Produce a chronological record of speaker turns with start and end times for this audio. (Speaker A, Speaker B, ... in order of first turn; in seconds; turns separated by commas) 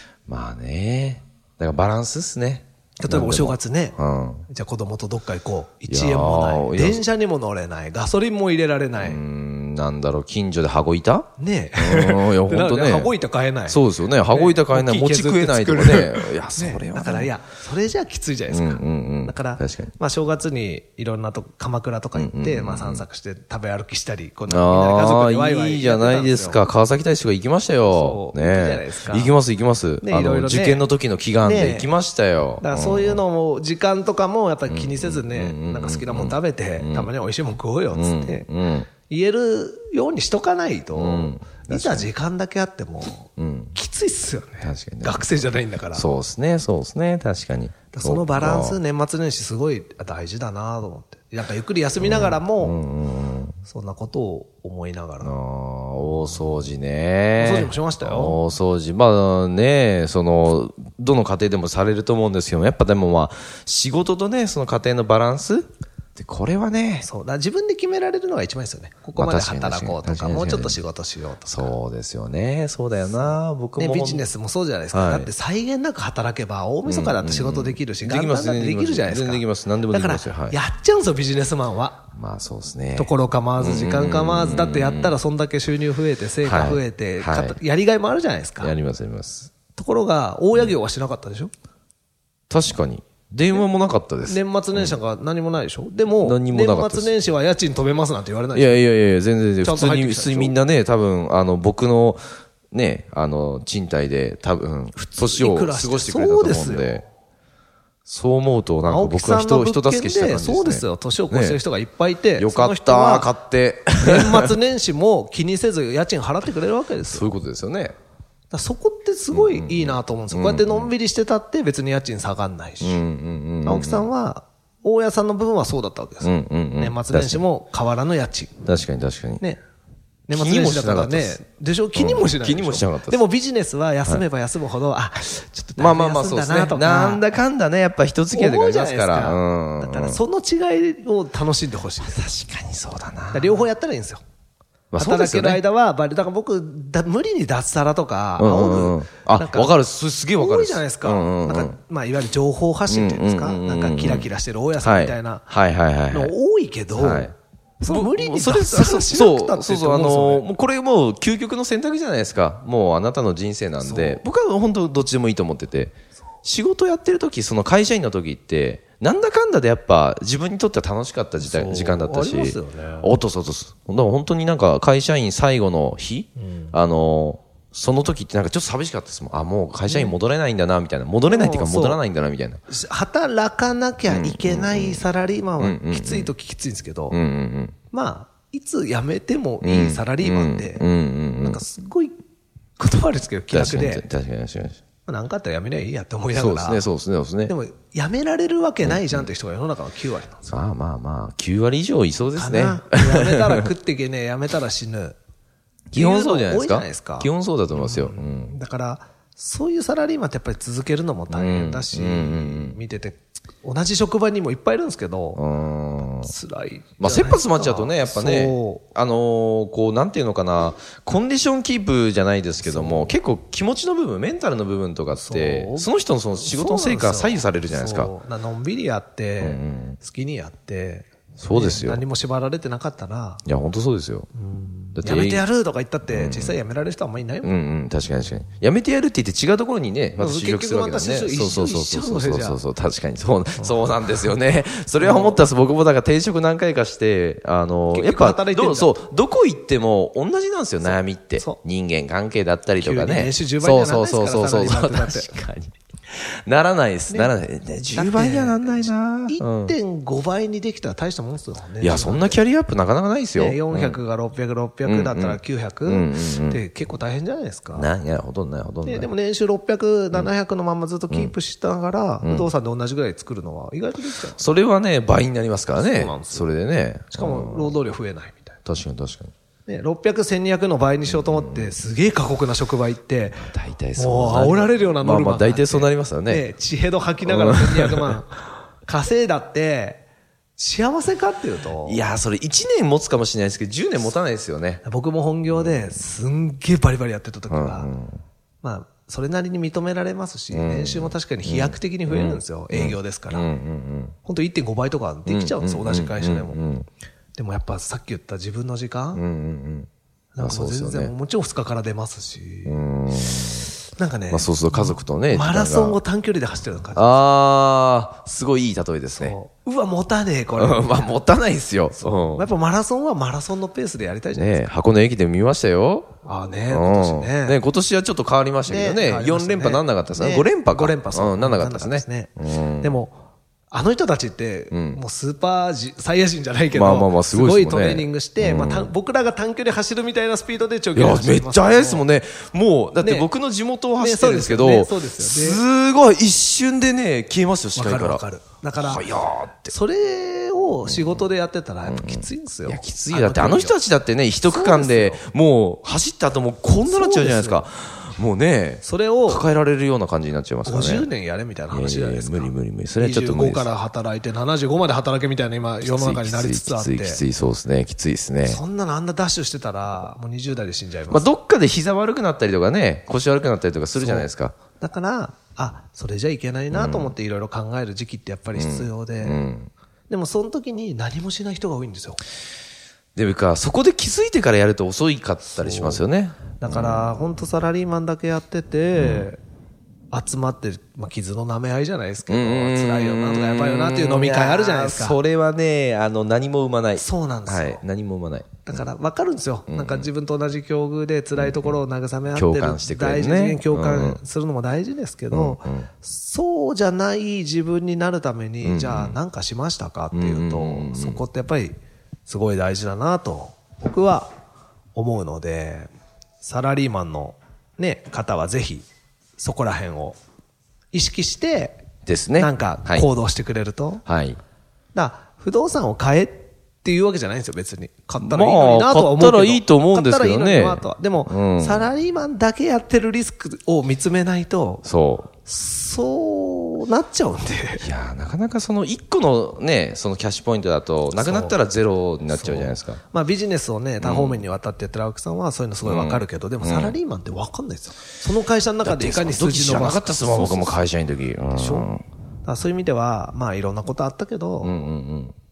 Speaker A: 0.3-4.5, Speaker B: 3.0-9.2, Speaker A: 5.9-7.0, Speaker A: 9.0-13.1, Speaker B: 11.4-26.7, Speaker A: 13.7-17.3, Speaker A: 18.5-19.9, Speaker A: 22.1-23.1, Speaker A: 24.5-33.2, Speaker B: 27.8-29.3, Speaker B: 30.0-30.9, Speaker B: 31.4-31.9, Speaker B: 32.6-38.5, Speaker A: 34.7-37.1, Speaker A: 37.9-38.9, Speaker B: 39.0-46.1, Speaker A: 40.9-42.1, Speaker A: 43.4-43.8, Speaker A: 44.6-45.2, Speaker A: 45.9-48.8, Speaker B: 47.9-52.8, Speaker A: 52.0-53.6, Speaker B: 53.6-55.4, Speaker A: 55.2-67.1, Speaker B: 56.1-56.4, Speaker B: 57.4-58.4, Speaker B: 67.0-71.7, Speaker A: 69.2-70.8, Speaker A: 71.5-74.3, Speaker B: 73.1-82.0, Speaker A: 74.9-75.3, Speaker A: 76.8-80.6, Speaker A: 82.1-85.2, Speaker B: 83.0-88.7, Speaker A: 86.4-87.6, Speaker A: 88.6-89.5, Speaker B: 89.8-91.5, Speaker A: 92.5-95.0, Speaker B: 94.2-98.8, Speaker A: 96.2-97.1, Speaker A: 98.5-107.0, Speaker B: 99.6-100.6, Speaker B: 105.0-107.0, Speaker A: 108.1-111.6, Speaker B: 108.9-113.3, Speaker A: 112.4-114.5, Speaker B: 114.0-117.3, Speaker A: 117.0-118.0, Speaker B: 118.5-123.0, Speaker A: 119.3-120.9, Speaker A: 122.8-124.1, Speaker B: 123.6-128.6, Speaker A: 126.2-127.4, Speaker A: 128.7-129.4, Speaker B: 130.3-137.2, Speaker A: 130.3-131.4, Speaker A: 131.9-133.2, Speaker A: 135.8-140.2, Speaker B: 138.3-142.3, Speaker A: 142.0-143.6, Speaker B: 143.3-144.2, Speaker A: 144.9-145.6, Speaker B: 145.0-149.8, Speaker A: 148.4-151.8, Speaker B: 150.4-155.5, Speaker A: 152.9-154.3, Speaker A: 154.8-156.3, Speaker B: 156.1-160.4, Speaker A: 156.9-182.6, Speaker B: 163.8-164.2, Speaker B: 171.4-173.1, Speaker B: 176.4-176.7, Speaker B: 179.9-180.2, Speaker B: 181.3-182.0, Speaker B: 182.7-187.2, Speaker A: 184.1-185.0, Speaker A: 185.6-186.3, Speaker A: 187.1-187.8, Speaker B: 187.9-192.2, Speaker A: 189.6-191.6, Speaker B: 192.8-194.1, Speaker A: 193.5-194.8, Speaker B: 195.1-196.9, Speaker A: 196.3-197.5, Speaker B: 197.5-200.6, Speaker A: 198.8-199.3, Speaker A: 200.5-203.7, Speaker B: 202.3-205.2, Speaker A: 205.9-208.6, Speaker B: 205.9-215.4, Speaker A: 211.3-212.8, Speaker A: 215.3-216.3, Speaker B: 216.0-218.8, Speaker A: 217.0-228.1, Speaker B: 222.6-223.2, Speaker B: 225.2-233.4, Speaker A: 229.4-230.0, Speaker A: 231.4-232.0, Speaker A: 233.5-234.3, Speaker B: 234.3-237.5, Speaker A: 234.9-235.4, Speaker A: 236.1-236.6, Speaker A: 237.4-259.8, Speaker B: 240.2-242.6, Speaker B: 245.0-245.4, Speaker B: 247.9-248.9, Speaker B: 250.9-251.6, Speaker B: 252.8-255.3, Speaker B: 257.9-262.4, Speaker A: 261.8-264.0, Speaker B: 263.4-267.9, Speaker A: 264.9-266.6, Speaker A: 267.7-269.1, Speaker B: 268.9-274.4, Speaker A: 272.2-272.5, Speaker A: 274.4-277.8, Speaker B: 275.7-276.5, Speaker B: 277.1-278.6, Speaker A: 278.7-279.3, Speaker B: 279.7-290.0, Speaker A: 281.1-281.7, Speaker A: 283.3-286.5, Speaker A: 287.2-288.1, Speaker B: 290.6-292.0, Speaker A: 291.9-294.8, Speaker B: 294.8-297.9, Speaker A: 295.5-295.9, Speaker A: 297.5-298.2, Speaker B: 298.6-303.5, Speaker A: 300.5-304.1, Speaker B: 304.2-306.6, Speaker A: 305.3-306.9, Speaker B: 307.4-309.2, Speaker A: 309.1-309.9, Speaker B: 310.3-312.8, Speaker A: 310.4-311.1, Speaker A: 312.7-313.7, Speaker B: 313.9-317.2, Speaker A: 314.3-316.0, Speaker A: 316.9-319.4, Speaker B: 319.1-321.1, Speaker A: 320.6-322.5, Speaker B: 322.0-324.7, Speaker A: 324.3-326.1, Speaker B: 326.2-327.6, Speaker A: 326.7-332.9, Speaker B: 328.7-333.2, Speaker B: 333.7-342.1, Speaker A: 334.7-335.0, Speaker A: 336.7-338.9, Speaker A: 340.9-348.2, Speaker B: 343.0-343.3, Speaker B: 344.0-345.6, Speaker B: 347.8-349.1, Speaker A: 348.8-349.7, Speaker B: 349.7-353.8, Speaker A: 350.9-351.2, Speaker A: 351.8-361.1, Speaker B: 354.4-355.2, Speaker B: 356.8-357.6, Speaker B: 358.8-359.5, Speaker B: 360.6-367.2, Speaker A: 361.7-363.7, Speaker A: 365.8-368.6, Speaker B: 368.4-371.3, Speaker A: 371.1-374.5, Speaker B: 374.0-374.3, Speaker B: 374.8-379.4, Speaker A: 376.7-377.1, Speaker A: 378.6-379.7, Speaker B: 380.1-382.2, Speaker A: 383.1-387.1, Speaker B: 385.6-386.0, Speaker B: 386.6-389.4, Speaker A: 389.0-389.3, Speaker B: 390.1-395.2, Speaker A: 392.3-398.8, Speaker B: 397.0-397.8, Speaker B: 398.7-411.8, Speaker A: 399.7-400.1, Speaker A: 401.4-401.8, Speaker A: 402.3-404.2, Speaker A: 405.3-405.9, Speaker A: 408.6-409.2, Speaker A: 410.1-411.2, Speaker B: 412.3-414.3, Speaker B: 414.9-418.9, Speaker B: 419.4-420.2, Speaker B: 420.9-421.9, Speaker A: 422.1-423.1, Speaker B: 422.4-424.0, Speaker A: 424.1-424.4, Speaker B: 424.9-434.9, Speaker A: 428.2-431.9, Speaker A: 434.9-435.3, Speaker B: 435.4-437.9, Speaker A: 437.8-443.0, Speaker B: 441.2-441.6, Speaker B: 442.4-450.8, Speaker A: 444.0-444.4, Speaker A: 445.8-447.0, Speaker A: 448.9-452.0, Speaker B: 451.5-451.9, Speaker B: 452.4-454.8, Speaker A: 454.6-455.4